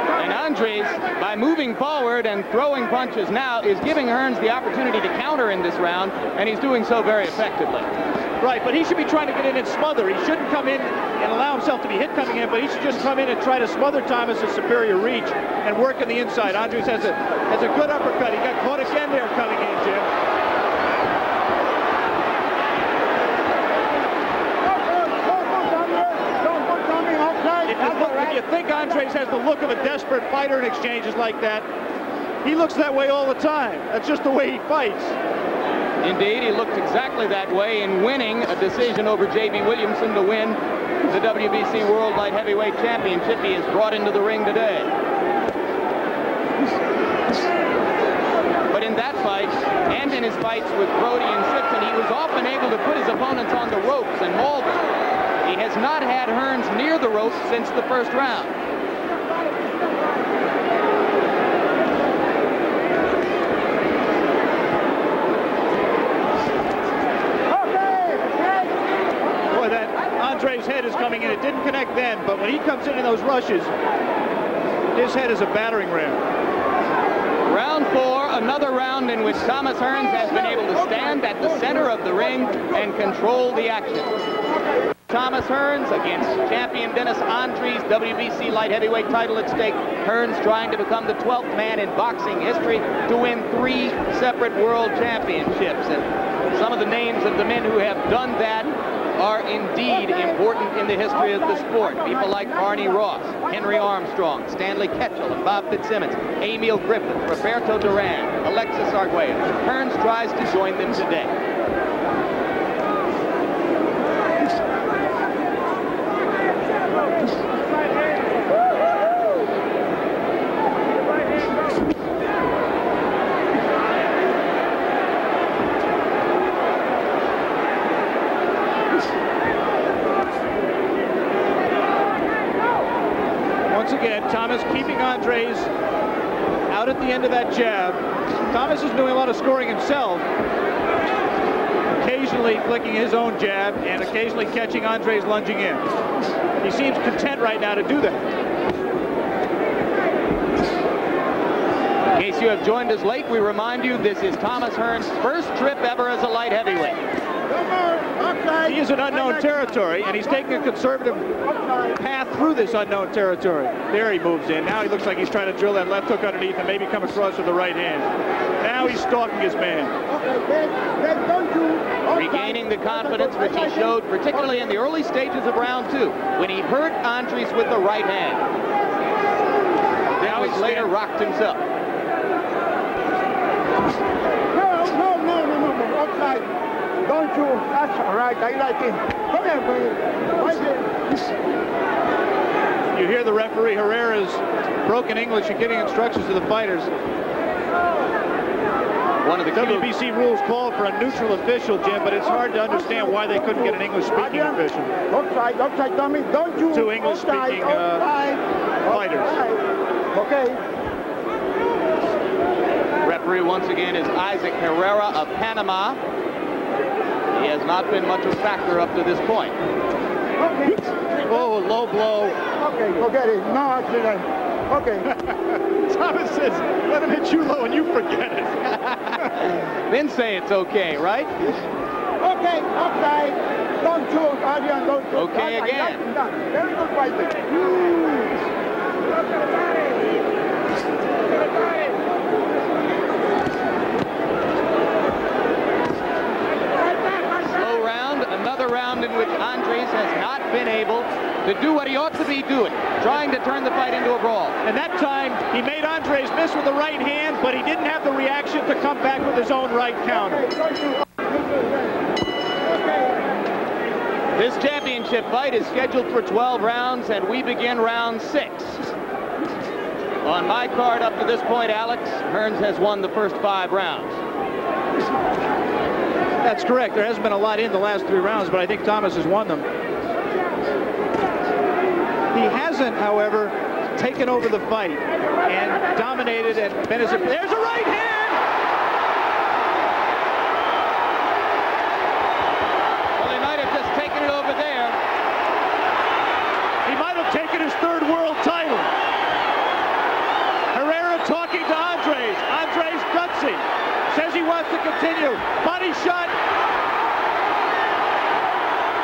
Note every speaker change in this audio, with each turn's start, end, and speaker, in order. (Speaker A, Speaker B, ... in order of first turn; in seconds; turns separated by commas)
Speaker A: 0.1-7.9, Speaker B: 8.4-20.1, Speaker C: 24.6-28.4, Speaker B: 27.7-31.7, Speaker B: 32.4-35.1, Speaker A: 36.0-44.9, Speaker A: 48.7-54.9, Speaker A: 55.4-58.5, Speaker B: 69.5-73.7, Speaker B: 74.9-76.2, Speaker A: 77.5-84.1, Speaker A: 85.1-111.3, Speaker B: 133.7-135.7, Speaker B: 136.7-140.2, Speaker B: 142.0-145.9, Speaker B: 146.6-148.3, Speaker A: 152.2-157.0, Speaker C: 157.5-158.8, Speaker B: 158.6-161.3, Speaker C: 161.4-161.9, Speaker B: 161.9-168.1, Speaker B: 168.6-169.9, Speaker C: 170.1-173.9, Speaker A: 172.1-178.4, Speaker A: 180.2-181.6, Speaker B: 180.2-180.9, Speaker C: 184.5-186.5, Speaker C: 187.1-190.9, Speaker B: 192.9-196.9, Speaker A: 199.2-199.9, Speaker B: 199.5-204.9, Speaker C: 202.8-204.6, Speaker C: 205.1-209.6, Speaker B: 206.7-208.0, Speaker B: 208.9-209.3, Speaker C: 210.1-210.6, Speaker A: 213.0-216.0, Speaker A: 217.3-219.6, Speaker C: 220.4-220.8, Speaker B: 221.4-222.3, Speaker C: 222.6-225.1, Speaker B: 225.1-228.7, Speaker A: 228.7-231.5, Speaker C: 232.2-237.9, Speaker A: 235.1-236.0, Speaker A: 247.4-254.6, Speaker B: 254.6-260.5, Speaker C: 260.4-260.8, Speaker A: 264.4-268.9, Speaker A: 270.2-274.2, Speaker B: 276.4-279.7, Speaker B: 282.3-288.4, Speaker A: 293.2-295.0, Speaker B: 296.8-298.9, Speaker B: 300.7-306.3